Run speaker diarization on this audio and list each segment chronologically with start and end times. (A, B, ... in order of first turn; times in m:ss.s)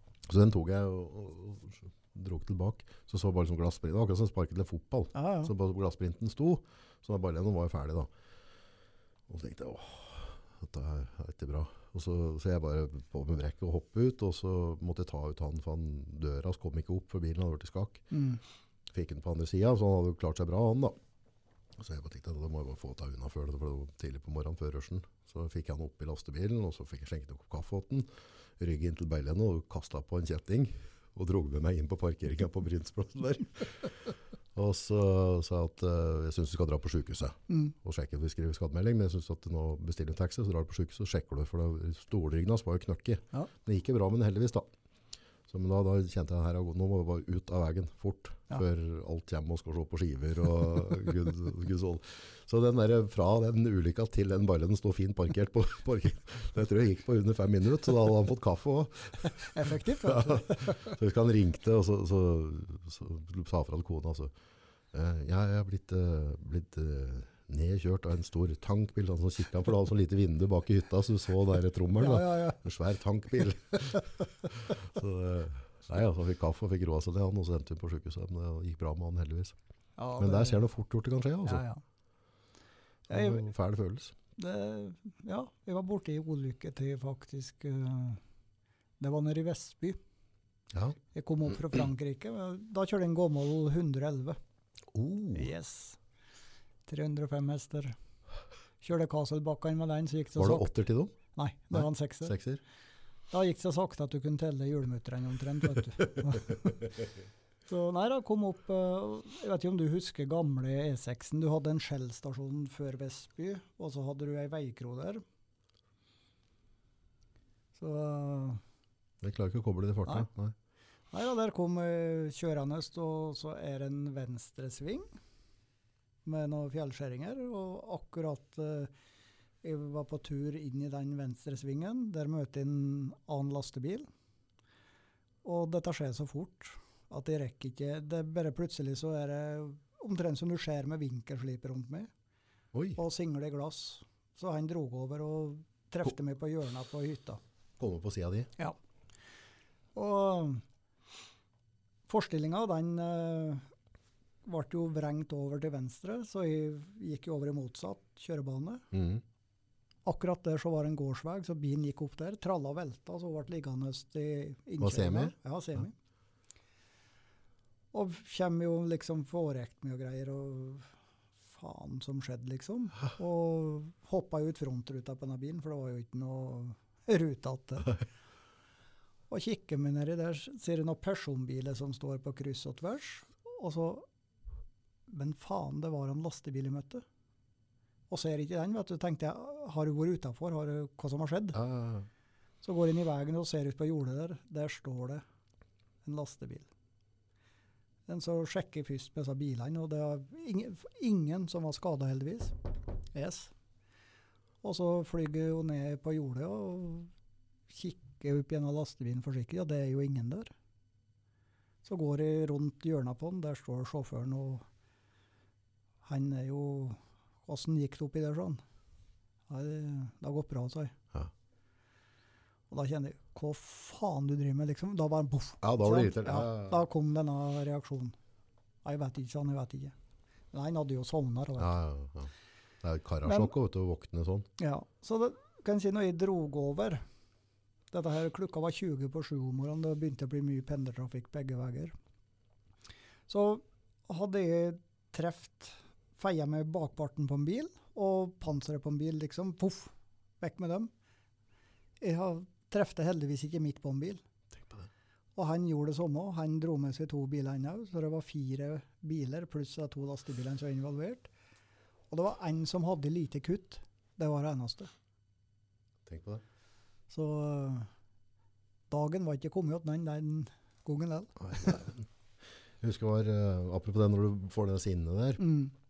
0:00.3-0:08.1 A
0:05.1-0:05.5 B
0:09.3-0:18.0 A
0:18.1-0:18.4 B
0:18.9-0:20.9 A
0:21.8-0:28.1 A
0:28.6-0:44.7 A
0:37.5-0:37.7 B
0:45.5-1:04.3 A
0:59.4-1:00.9 B
1:04.9-1:19.6 A
1:11.9-1:12.6 B
1:20.0-1:20.6 B
1:20.2-1:21.6 A
1:21.4-1:21.8 B
1:23.1-1:24.2 A
1:23.1-1:23.5 B
1:24.4-1:28.2 B
1:29.0-1:30.0 B
1:30.7-1:31.0 A
1:31.1-1:34.4 B
1:34.9-1:35.5 A
1:35.3-1:36.0 B
1:36.9-1:37.9 B
1:38.8-1:40.7 B
1:40.4-1:41.1 A
1:41.3-1:42.3 B
1:41.7-1:42.6 A
1:43.3-1:46.8 B
1:47.6-1:55.2 B
1:57.8-1:58.6 B
1:59.2-2:00.5 A
2:01.1-2:05.1 B
2:06.2-2:08.9 B
2:09.6-2:14.1 B
2:15.4-2:22.1 B
2:22.7-2:23.0 A
2:23.0-2:27.4 B
2:27.8-2:28.5 A
2:29.9-2:30.6 B
2:32.1-2:33.6 B
2:34.4-2:38.8 B
2:38.9-2:39.2 A
2:40.0-2:45.9 B
2:44.8-2:45.3 A
2:47.9-2:50.9 B
2:51.5-2:58.0 B
2:59.3-3:04.0 B
3:05.1-3:07.0 B
3:08.1-3:11.6 B
3:11.5-3:12.1 A
3:12.6-3:15.2 B
3:16.0-3:16.7 B
3:18.1-3:22.5 B
3:23.1-3:23.5 B
3:24.6-3:27.1 B
3:27.7-3:30.5 B
3:31.8-3:34.6 B
3:36.0-3:38.6 B
3:39.5-3:40.9 B
3:42.7-3:48.1 B
3:45.6-3:46.8 A
3:48.8-3:49.9 B
3:50.5-3:51.7 B
3:51.6-3:52.3 A
3:52.8-3:54.5 A
3:53.2-3:53.5 B
3:54.6-3:57.0 B
3:57.9-4:01.9 B
4:03.3-4:10.9 B
4:12.0-4:14.2 B
4:14.5-4:14.9 A
4:15.4-4:21.3 B
4:22.1-4:24.9 B
4:26.0-4:26.4 A
4:27.1-4:27.9 B
4:28.9-4:31.7 B
4:31.4-4:32.1 A
4:32.8-4:35.4 A
4:35.4-4:35.7 B